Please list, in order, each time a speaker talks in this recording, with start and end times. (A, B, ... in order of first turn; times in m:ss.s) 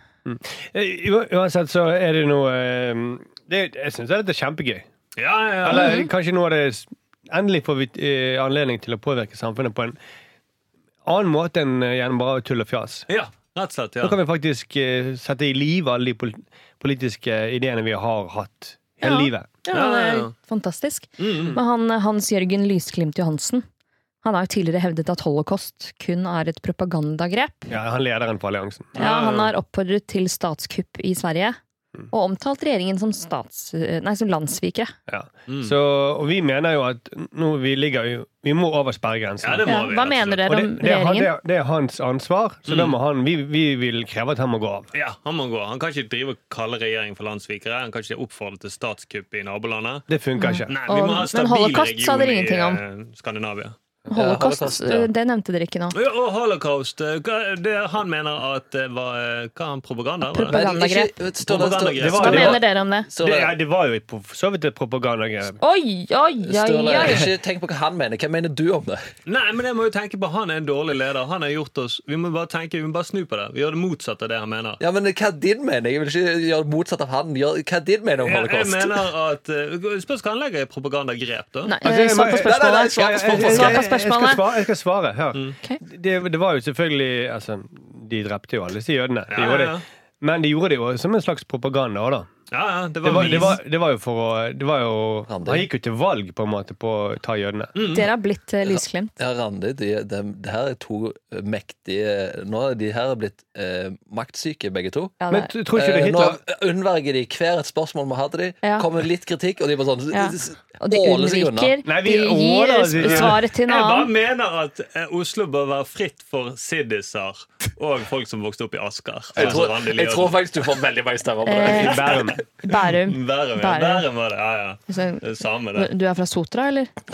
0:00.2-0:04.9 A
0:05.2-0:06.0 B
0:05.6-0:10.0 A
0:05.7-0:06.1 C
0:11.0-0:13.1 A
0:13.1-0:14.2 B
0:14.0-0:19.5 A
0:19.0-0:23.6 C
0:19.7-0:20.3 B
0:21.2-0:21.6 B
0:24.2-0:27.7 C
0:27.7-0:29.0 A
0:29.0-0:29.5 B
0:29.0-0:31.6 C
0:32.1-0:35.0 C
0:35.1-0:39.8 A
0:35.5-0:35.8 B
0:39.4-0:40.4 B
0:39.7-0:41.3 C
0:40.4-0:44.9 A
0:42.7-0:43.0 B
0:44.9-0:50.1 B
0:50.1-0:50.8 A
0:50.4-0:52.8 C
0:50.7-0:53.8 B
0:54.1-0:56.0 C
0:54.1-0:55.1 D
0:55.9-1:00.6 B
1:00.3-1:01.1 C
1:00.5-1:03.5 D
1:01.4-1:02.5 B
1:02.0-1:02.6 A
1:02.2-1:03.1 C
1:03.2-1:05.6 A
1:05.6-1:07.3 C
1:06.4-1:09.0 D
1:09.3-1:14.8 B
1:14.8-1:19.1 D
1:18.2-1:21.8 B
1:21.7-1:24.4 C
1:21.8-1:32.3 A
1:22.4-1:23.9 D
1:29.3-1:29.8 B
1:32.5-1:33.6 B
1:33.0-1:37.8 A
1:35.3-1:35.6 D
1:37.8-1:38.1 B
1:37.9-1:39.2 C
1:38.8-1:45.2 D
1:45.2-1:45.5 C
1:45.3-1:46.4 A
1:45.7-1:51.8 D
1:48.6-1:48.9 C
1:50.1-1:54.1 C
1:51.8-1:53.4 A
1:53.0-2:00.6 B
1:59.4-2:02.4 D
2:01.5-2:02.1 C
2:01.8-2:02.4 A
2:02.6-2:04.1 C
2:02.9-2:05.9 B
2:04.9-2:06.9 C